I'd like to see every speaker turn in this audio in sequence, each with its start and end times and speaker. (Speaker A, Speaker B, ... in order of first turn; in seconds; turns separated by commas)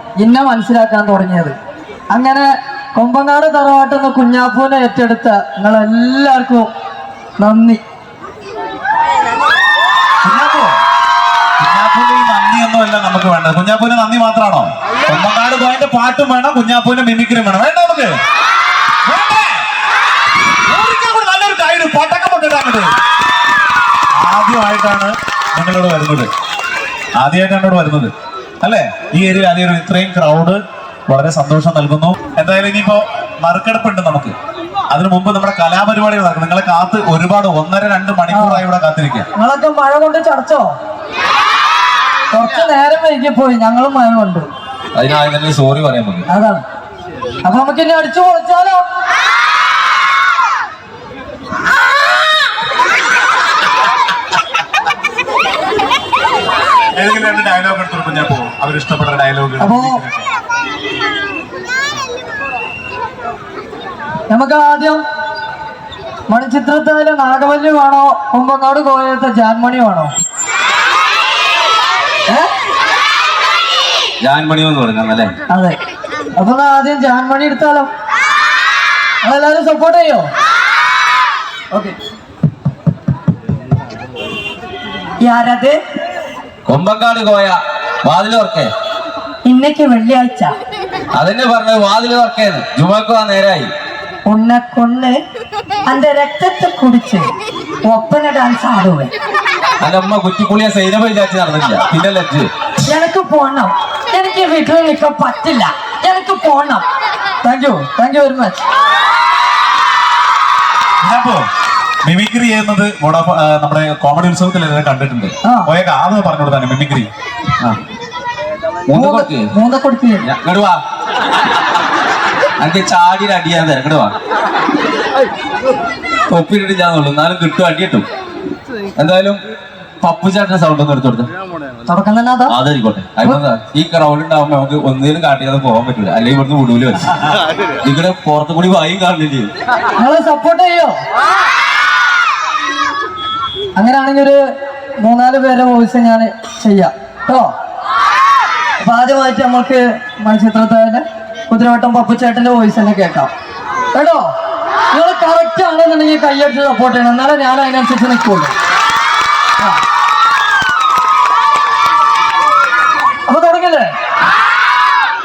Speaker A: 0.2-1.6, Speaker A: 2.1-6.7, Speaker A: 7.4-7.8, Speaker B: 10.2-10.7, Speaker B: 11.6-18.1, Speaker B: 19.0-19.6, Speaker B: 20.6-22.9, Speaker B: 24.1-26.3, Speaker B: 27.2-34.3, Speaker B: 34.9-39.3, Speaker A: 38.3-38.6, Speaker A: 39.3-40.7, Speaker A: 42.3-44.5, Speaker C: 44.9-46.3, Speaker A: 46.3-46.6, Speaker A: 47.4-48.8, Speaker B: 56.9-60.3, Speaker A: 59.6-60.0, Speaker A: 64.3-65.0, Speaker A: 66.3-70.1, Speaker C: 74.2-75.3, Speaker A: 75.5-75.8, Speaker A: 76.3-77.9, Speaker A: 79.2-80.3, Speaker A: 81.7-82.0, Speaker A: 85.2-85.8, Speaker C: 86.7-88.7, Speaker A: 89.4-90.5, Speaker C: 91.2-93.7, Speaker A: 94.2-95.2, Speaker A: 95.9-97.3, Speaker A: 97.8-99.1, Speaker C: 99.8-102.5, Speaker A: 102.8-106.8, Speaker A: 107.4-108.6, Speaker B: 111.0-111.4, Speaker B: 112.0-117.1, Speaker A: 115.4-115.7, Speaker C: 118.9-119.5, Speaker A: 118.9-120.2, Speaker C: 120.2-120.8, Speaker C: 122.6-124.1, Speaker C: 126.3-128.1, Speaker C: 128.9-129.4, Speaker C: 130.0-131.3, Speaker A: 131.9-132.5, Speaker C: 132.5-139.5, Speaker A: 140.0-141.0, Speaker A: 143.8-144.4, Speaker A: 145.0-147.5, Speaker A: 148.8-153.3, Speaker A: 153.9-154.3, Speaker A: 154.9-158.5, Speaker A: 163.3-163.9